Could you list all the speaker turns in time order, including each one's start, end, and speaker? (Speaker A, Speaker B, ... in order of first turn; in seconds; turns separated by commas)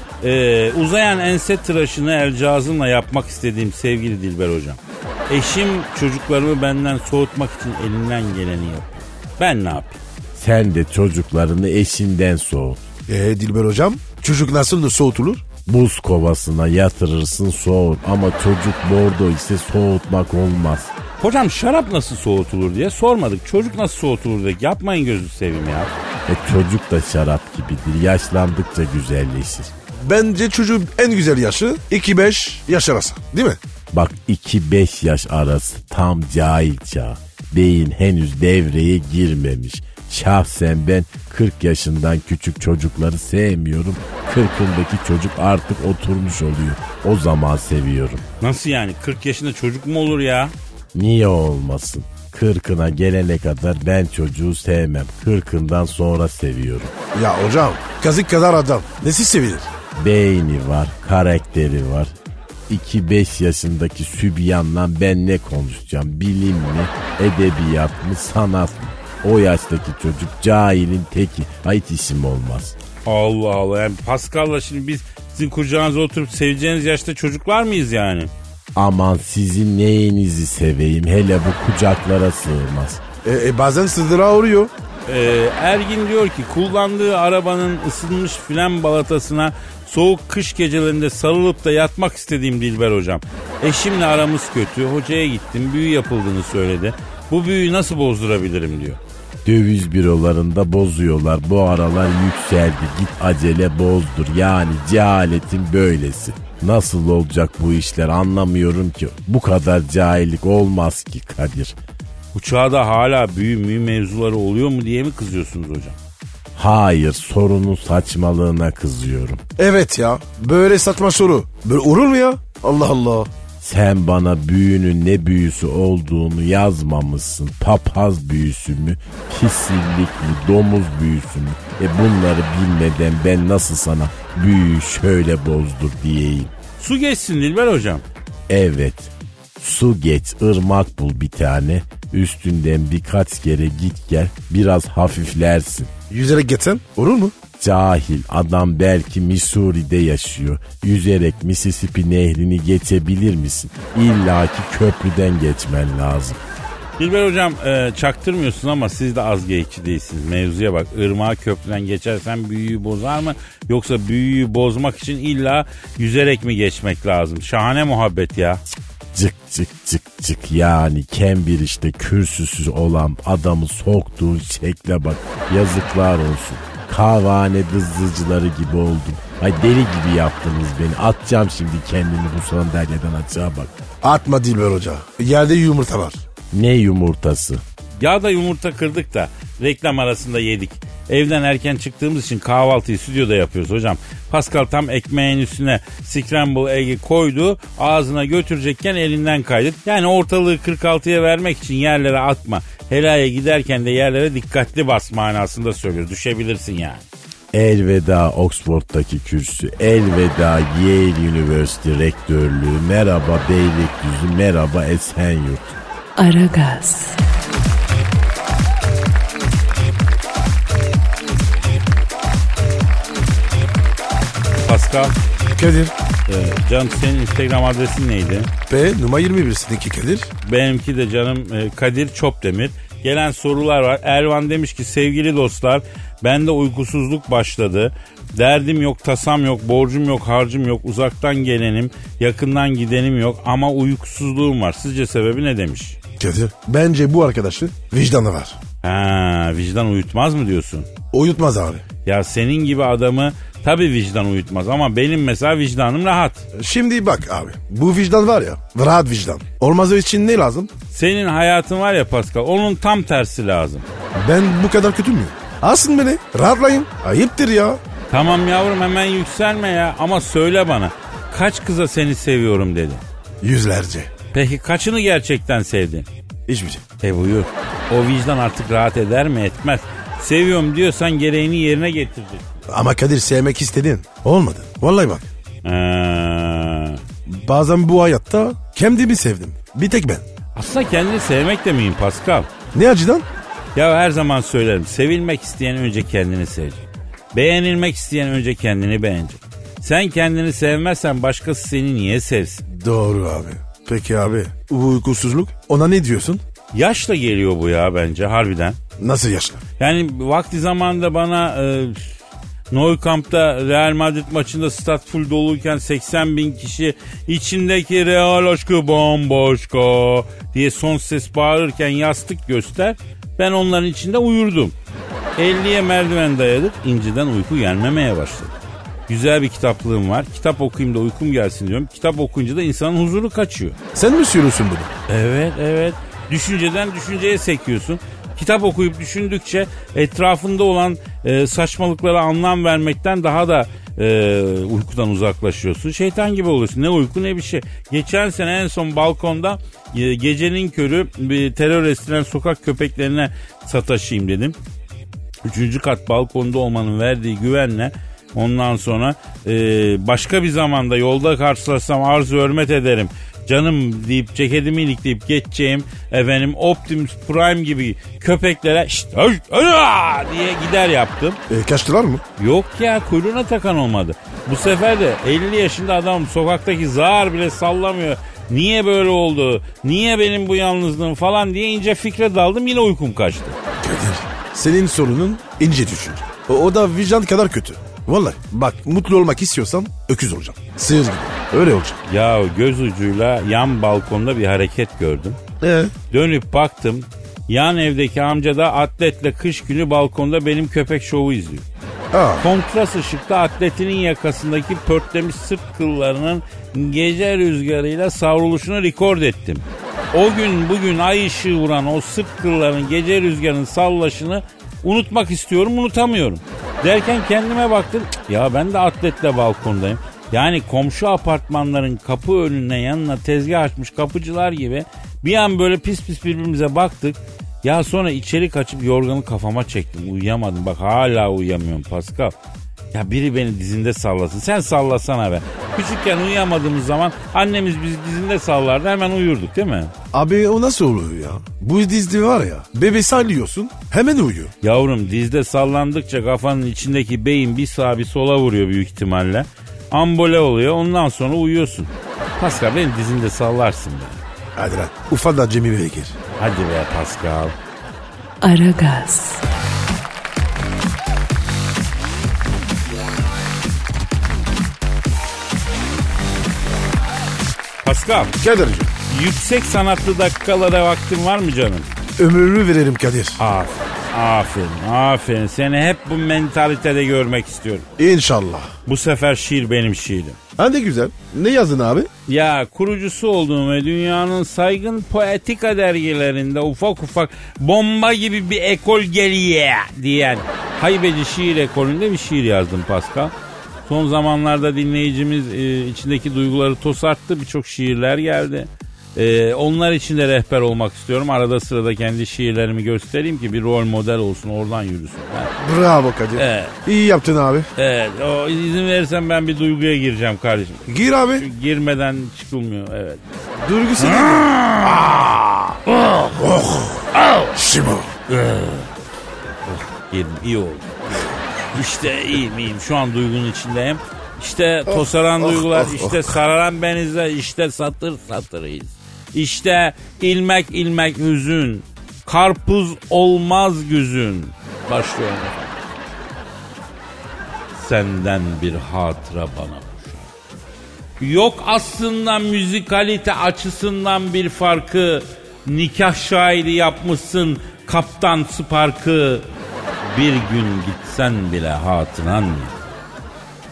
Speaker A: 0.2-10.0, Speaker B: 10.3-12.8, Speaker C: 13.1-15.5, Speaker B: 15.7-20.9, Speaker A: 21.2-25.9, Speaker B: 26.3-29.7, Speaker C: 30.0-33.6, Speaker B: 33.9-48.2, Speaker A: 48.4-50.5, Speaker B: 50.9-56.9, Speaker C: 57.1-59.7, Speaker B: 60.0-62.1, Speaker B: 62.7-72.7, Speaker A: 73.0-78.3, Speaker B: 78.7-83.0, Speaker C: 83.2-84.7, Speaker A: 85.1-99.0, Speaker B: 99.4-111.7, Speaker A: 112.3-116.0, Speaker B: 116.5-119.4, Speaker C: 119.6-123.3, Speaker B: 123.6-136.5, Speaker A: 136.8-138.0, Speaker B: 138.5-145.9, Speaker C: 146.1-147.3, Speaker B: 147.6-156.4, Speaker A: 157.0-168.6, Speaker B: 169.1-183.7, Speaker C: 184.0-186.2, Speaker B: 186.5-187.6, Speaker A: 188.0-207.1, Speaker B: 207.5-215.8, Speaker D: 216.2-217.2, Speaker A: 224.6-225.2, Speaker C: 225.5-225.9, Speaker A: 226.3-228.5, Speaker C: 228.7-230.3, Speaker A: 230.4-246.0, Speaker C: 246.2-248.6, Speaker A: 248.8-250.9, Speaker C: 251.1-251.8, Speaker A: 252.0-256.4, Speaker C: 256.5-260.7, Speaker A: 260.9-263.8, Speaker C: 264.1-267.8, Speaker A: 268.1-273.0, Speaker C: 273.4-274.1, Speaker A: 274.3-276.1, Speaker C: 276.5-276.8, Speaker A: 277.0-282.5, Speaker C: 282.7-285.3, Speaker A: 285.6-287.0, Speaker C: 287.3-290.2, Speaker A: 290.5-292.5, Speaker C: 292.7-293.2, Speaker A: 293.7-302.6, Speaker C: 302.7-306.4, Speaker A: 306.7-308.8, Speaker C: 309.0-309.6, Speaker A: 309.8-312.1, Speaker A: 312.7-324.7, Speaker A: 325.4-328.5, Speaker A: 329.1-333.8, Speaker C: 333.9-334.9, Speaker A: 335.1-354.6, Speaker A: 355.4-371.4, Speaker C: 371.5-372.2, Speaker A: 372.4-383.6, Speaker C: 383.8-392.0, Speaker A: 392.1-395.4, Speaker C: 395.6-395.9, Speaker A: 396.1-401.6, Speaker C: 402.1-402.5, Speaker A: 402.4-432.3, Speaker A: 432.9-439.9, Speaker C: 440.1-444.5, Speaker A: 444.6-454.2, Speaker C: 454.6-456.1, Speaker A: 456.4-457.5, Speaker D: 458.4-459.4, Speaker A: 467.8-468.4, Speaker C: 468.4-468.9, Speaker A: 469.1-471.9, Speaker C: 472.2-473.4, Speaker A: 473.4-477.9, Speaker C: 478.0-478.7, Speaker A: 478.9-480.4, Speaker C: 480.6-482.1, Speaker A: 482.3-493.3, Speaker A: 493.9-505.5, Speaker C: 505.6-507.7, Speaker A: 506.4-506.8, Speaker A: 507.8-513.2, Speaker C: 510.9-511.4, Speaker C: 513.6-518.1, Speaker A: 514.0-515.1, Speaker A: 518.3-518.9, Speaker A: 519.8-535.8, Speaker C: 524.9-526.3, Speaker A: 537.7-540.3, Speaker A: 541.2-549.5, Speaker A: 550.0-552.8